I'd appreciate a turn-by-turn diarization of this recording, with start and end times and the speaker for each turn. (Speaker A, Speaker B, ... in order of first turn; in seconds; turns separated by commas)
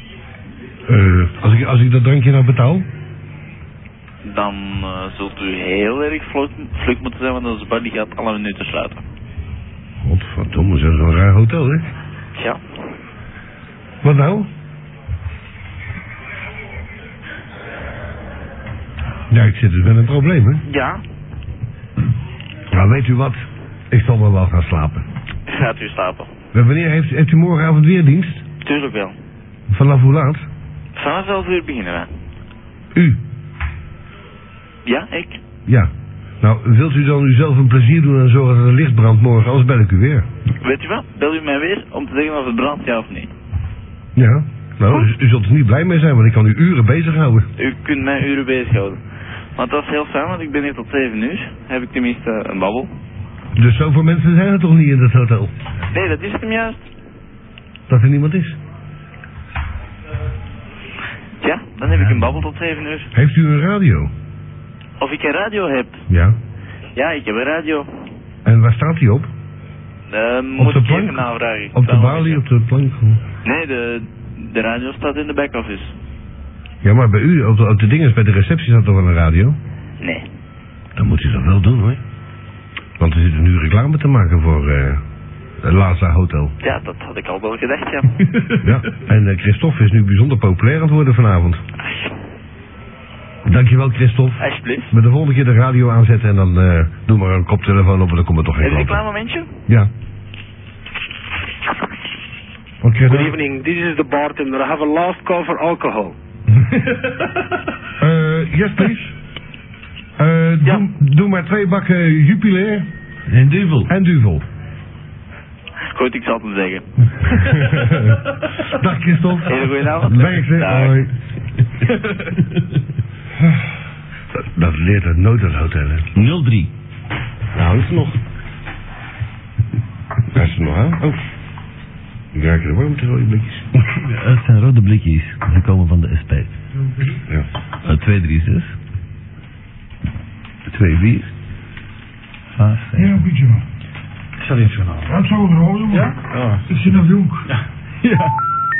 Speaker A: 0.9-2.8, Speaker B: 4.2-9.0, Speaker A: 10.0-11.8, Speaker B: 12.3-12.6, Speaker A: 14.0-14.5, Speaker A: 19.3-20.6, Speaker B: 20.6-21.0, Speaker A: 22.7-25.1, Speaker B: 25.5-26.3, Speaker A: 26.5-28.4, Speaker B: 28.6-29.2, Speaker A: 29.7-30.4, Speaker B: 30.9-32.1, Speaker A: 32.9-33.2, Speaker B: 34.8-35.4, Speaker A: 36.4-40.3, Speaker B: 40.6-43.3, Speaker A: 44.1-47.5, Speaker B: 47.6-49.0, Speaker B: 49.5-52.9, Speaker A: 53.5-55.5, Speaker B: 55.9-56.8, Speaker A: 57.9-58.6, Speaker B: 61.4-63.1, Speaker A: 63.1-64.1, Speaker B: 65.0-66.0, Speaker A: 66.1-66.3, Speaker B: 66.9-68.1, Speaker A: 68.4-69.3, Speaker B: 70.1-72.4, Speaker A: 70.6-73.2, Speaker B: 73.4-76.0, Speaker A: 76.8-79.6, Speaker B: 80.0-80.2, Speaker A: 81.0-82.0, Speaker A: 83.0-85.0, Speaker A: 85.6-86.5, Speaker B: 86.6-88.2, Speaker A: 88.6-91.6, Speaker B: 91.8-92.1, Speaker A: 93.4-99.0, Speaker B: 94.4-94.9, Speaker B: 98.6-99.6, Speaker A: 102.8-103.4, Speaker C: 103.0-106.2, Speaker A: 108.0-109.1, Speaker A: 110.2-112.9, Speaker D: 113.3-113.9, Speaker A: 113.9-114.4, Speaker B: 115.8-117.6, Speaker A: 117.3-121.1, Speaker B: 119.4-121.0, Speaker A: 124.3-126.1, Speaker D: 126.1-126.7, Speaker A: 127.5-128.2, Speaker A: 130.3-131.2, Speaker A: 132.3-133.7, Speaker D: 133.9-136.6, Speaker D: 137.8-138.8, Speaker D: 140.7-141.3, Speaker D: 142.6-143.2, Speaker E: 142.9-143.6, Speaker F: 144.4-145.1, Speaker E: 145.1-147.5, Speaker F: 145.9-146.6, Speaker F: 147.5-148.3